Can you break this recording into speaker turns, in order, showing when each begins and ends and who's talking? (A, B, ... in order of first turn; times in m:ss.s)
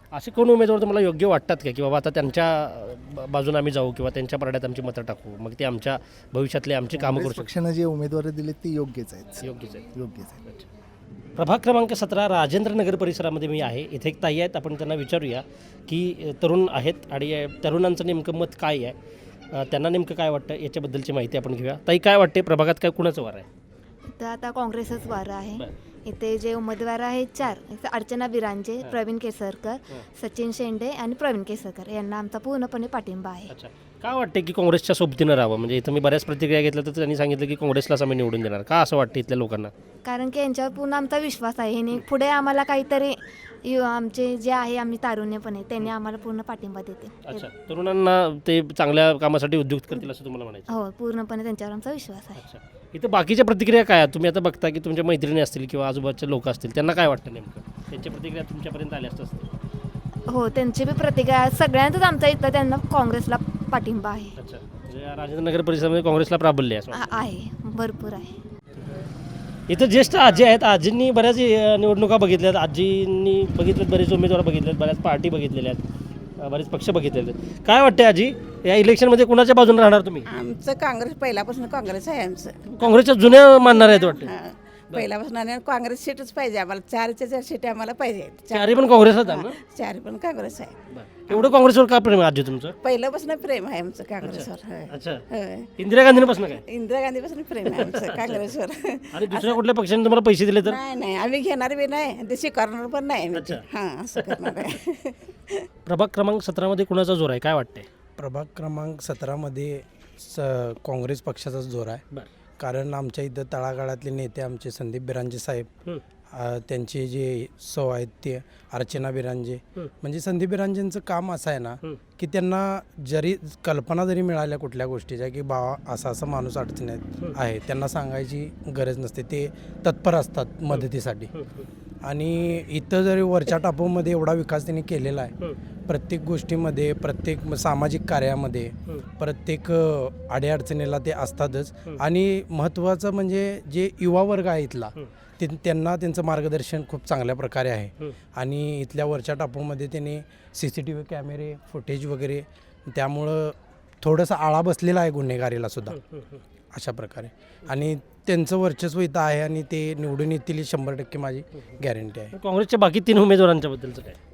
0:00.1-0:07.5 A
0:06.9-0:10.4 B
0:09.4-0:09.8 A
0:11.4-0:18.9 A
0:19.5-0:23.5 A
0:24.2-0:25.6 C
0:26.1-0:33.5 C
0:33.5-0:39.7 A
0:40.0-0:47.2 C
0:47.2-0:50.7 A
0:50.8-0:52.4 C
0:52.4-0:59.5 A
1:00.3-1:04.3 C
1:04.4-1:07.1 A
1:07.1-1:08.3 C
1:09.7-1:15.8 A
1:16.4-1:20.3 A
1:20.3-1:31.6 D
1:22.7-1:24.3 A
1:28.5-1:29.6 A
1:30.9-1:32.7 A
1:32.8-1:39.6 D
1:34.2-1:35.2 A
1:35.8-1:36.6 A
1:37.6-1:38.5 A
1:39.1-1:40.8 A
1:40.6-1:45.6 D
1:43.3-1:43.6 A
1:44.1-1:44.7 A
1:45.8-1:47.8 A
1:48.2-1:52.0 E
1:52.6-1:55.7 E
1:56.3-2:11.3 E
2:11.4-2:11.6 A
2:12.0-2:15.3 E
2:15.9-2:36.0 E
2:36.7-2:42.3 E
2:42.3-2:44.2 A